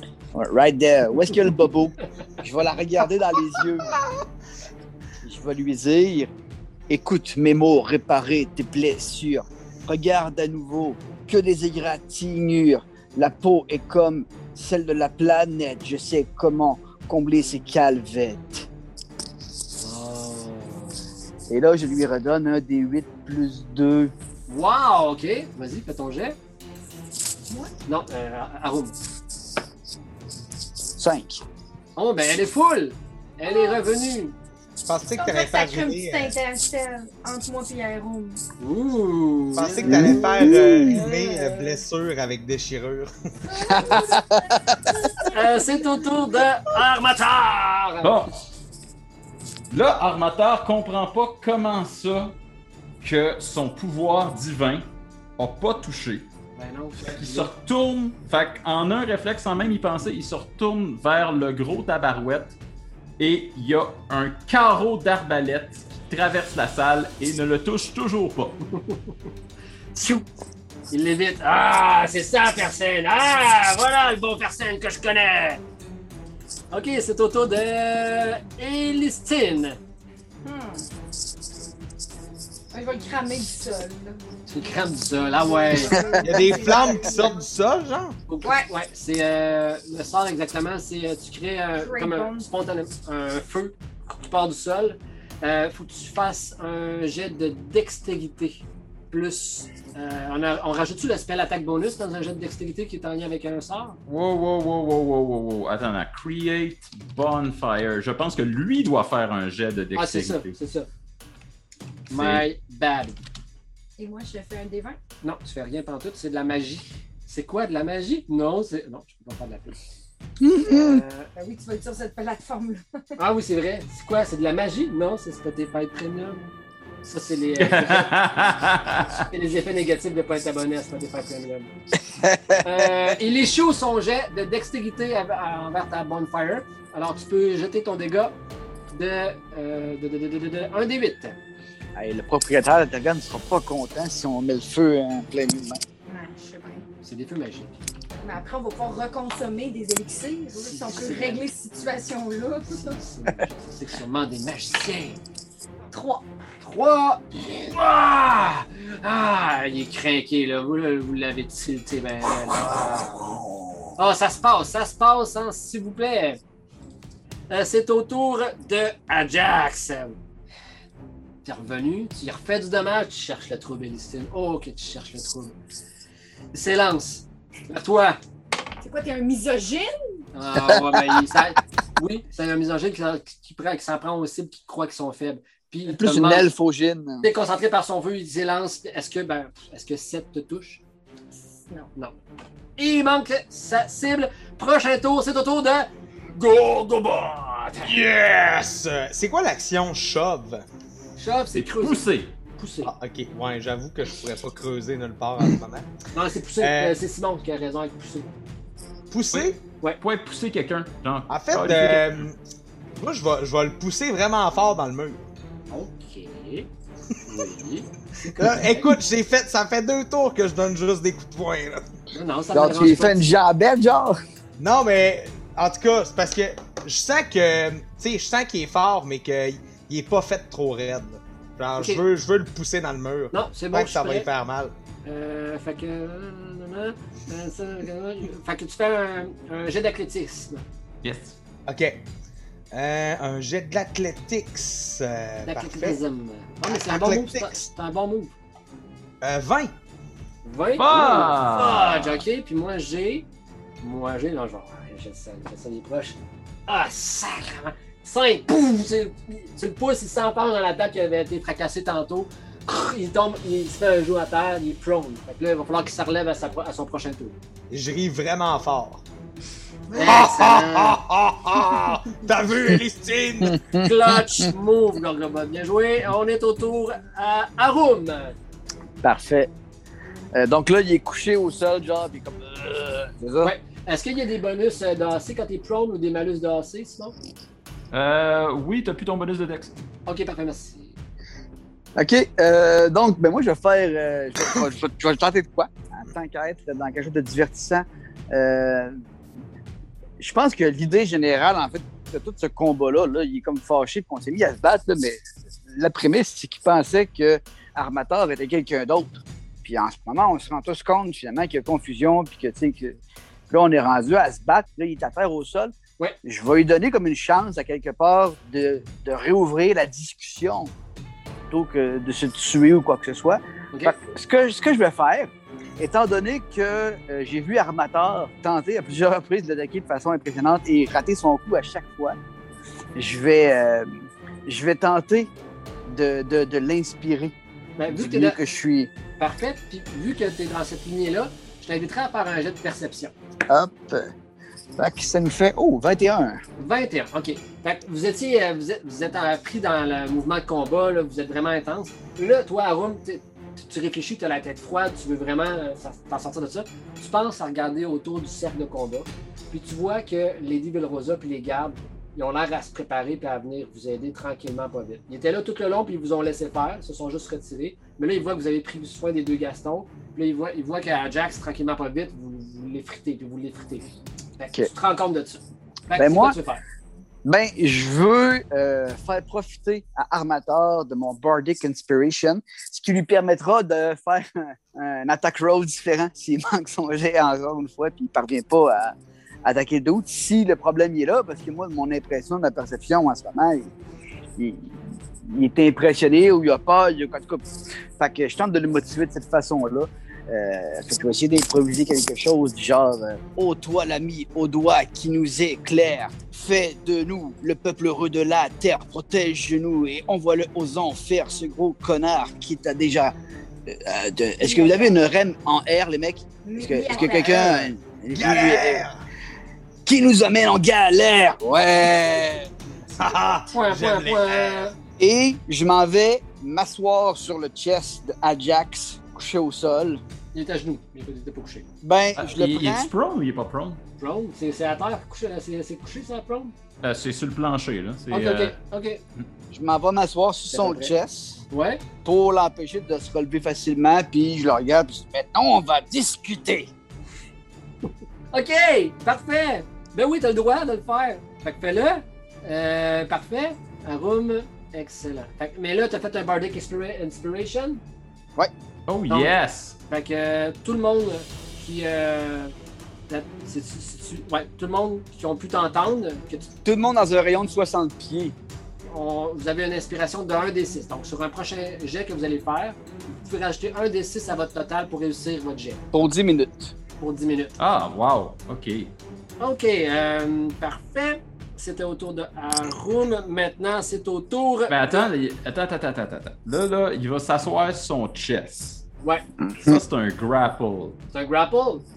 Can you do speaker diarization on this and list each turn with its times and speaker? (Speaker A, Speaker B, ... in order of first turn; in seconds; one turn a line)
Speaker A: 0.3-3.9
Speaker B: 3.9-4.2
Speaker A: 5.2-6.3
Speaker A: 6.9-18.7
Speaker C: 19.8-21.0
Speaker A: 21.5-24.1
Speaker C: 24.5-26.4
Speaker C: 27.9-28.9
Speaker A: 30.9-31.4
Speaker C: 31.9-34.4
Speaker D: 33.4-33.8
Speaker B: 34.8-36.3
Speaker D: 35.2-38.4
Speaker C: 38.6-41.8
Speaker B: 39.5-43.1
Speaker A: 39.8-40.7
Speaker D: 43.5-46.0
Speaker A: 43.7-44.8
Speaker C: 45.3-48.2
Speaker E: 48.0-48.3
Speaker E: 49.7-52.4
Speaker E: 53.0-56.3
Speaker C: 56.5-57.5
Speaker E: 57.0-62.6
Speaker E: 63.2-68.6
Speaker C: 68.7-69.1
Speaker C: 69.9-70.3
Speaker C: 70.9-75.6
Speaker C: 76.7-79.8
Speaker D: 80.4-80.9
Speaker D: 82.7-84.2
Speaker C: 84.5-86.2
Speaker D: 85.4-87.4
Speaker B: 86.2-88.2
Speaker C: 88.3-104.0
Speaker D: 88.4-88.7
Speaker D: 91.8-92.5
Speaker E: 104.1-110.5
Speaker C: 109.9-110.9
Speaker C: 112.1-113.2
Speaker E: 112.1-112.4
Speaker D: 114.0-115.0
Speaker C: 115.2-119.8
Speaker A: 120.4-121.0
Speaker C: 120.6-121.3
Speaker D: 121.3-122.8
Speaker C: 123.2-126.5
Speaker C: 127.0-128.1
Speaker E: 127.6-129.3
Speaker C: 129.3-131.7
Speaker A: 132.1-132.8
Speaker C: 132.6-138.3
Speaker C: 138.9-141.4
Speaker A: 141.9-145.8
Speaker D: 146.1-146.9
Speaker C: 147.0-147.7
Speaker D: 148.2-153.0
Speaker C: 150.5-151.4
Speaker C: 152.7-155.2
Speaker D: 155.9-156.2
Speaker C: 156.6-163.4
Speaker A: 162.6-163.8
Speaker C: 164.0-166.4
Speaker C: 167.5-170.2
Speaker C: 171.4-175.6
Speaker C: 176.5-178.2
Speaker D: 178.8-179.9
Speaker C: 180.3-186.5
Speaker A: 180.5-181.3
Speaker A: 185.9-187.3
Speaker C: 187.2-190.8
Speaker D: 191.6-191.9
Speaker C: 192.8-198.0
Speaker B: 197.8-200.6
Speaker C: 201.2-202.9
Speaker E: 201.5-202.3
Speaker B: 202.8-205.9
Speaker C: 206.1-208.3
Speaker B: 206.6-206.9
Speaker B: 209.1-209.6
Speaker E: 210.0-212.3
Speaker B: 211.3-212.4
Speaker B: 212.9-215.3
Speaker C: 215.7-216.7
Speaker C: 217.2-218.9
Speaker B: 218.4-221.9
Speaker C: 222.1-223.2
Speaker A: 222.5-224.2
Speaker B: 224.6-234.7
Speaker C: 233.3-234.3
Speaker C: 235.0-240.6
Speaker E: 241.0-241.4
Speaker B: 241.7-242.0
Speaker B: 242.7-246.0
Speaker C: 245.4-248.3
Speaker B: 246.7-247.6
Speaker B: 249.2-249.7
Speaker C: 250.4-253.2
Speaker E: 250.8-252.2
Speaker C: 253.8-267.4
Speaker B: 267.7-269.0
Speaker B: 269.9-273.6
Speaker C: 269.9-271.0
Speaker A: 273.4-274.5
Speaker C: 273.8-278.4
Speaker A: 279.0-279.5
Speaker A: 280.3-283.5
Speaker C: 283.4-287.1
Speaker E: 287.9-289.7
Speaker C: 290.1-290.9
Speaker A: 291.9-299.0
Speaker A: 300.2-313.0
Speaker A: 313.5-315.7
Speaker A: 316.2-320.7
Speaker A: 321.5-332.2
Speaker A: 332.9-333.9
Speaker A: 334.4-335.3
Speaker A: 335.9-337.3
Speaker C: 337.8-338.4
Speaker A: 337.9-338.9
Speaker C: 339.2-343.1
Speaker A: 343.5-344.1
Speaker A: 344.8-346.4
Speaker C: 346.6-376.6
Speaker A: 375.9-376.4
Speaker A: 377.2-393.7
Speaker A: 394.4-397.4
Speaker A: 398.0-413.1
Speaker A: 413.6-418.8
Speaker D: 414.4-415.0
Speaker D: 416.4-417.5
Speaker B: 416.9-418.9
Speaker A: 419.9-422.5
Speaker B: 423.0-424.7
Speaker C: 423.5-424.7
Speaker A: 425.0-430.0
Speaker C: 430.3-431.6
Speaker A: 431.8-432.9
Speaker E: 432.2-433.8
Speaker C: 434.0-436.5
Speaker E: 436.8-438.5
Speaker C: 438.1-439.0
Speaker A: 439.5-441.4
Speaker C: 440.5-440.9
Speaker C: 441.5-441.8
Speaker A: 442.0-446.7
Speaker C: 448.3-457.8
Speaker E: 458.9-459.8
Speaker C: 459.1-459.3
Speaker C: 459.9-462.5
Speaker C: 463.1-466.5
Speaker A: 466.6-468.3
Speaker C: 468.9-475.8
Speaker A: 475.9-476.7
Speaker C: 477.0-477.5
Speaker E: 477.6-478.9
Speaker C: 479.4-485.1
Speaker E: 484.7-488.8
Speaker A: 489.4-489.8
Speaker E: 489.6-491.0
Speaker C: 491.1-491.8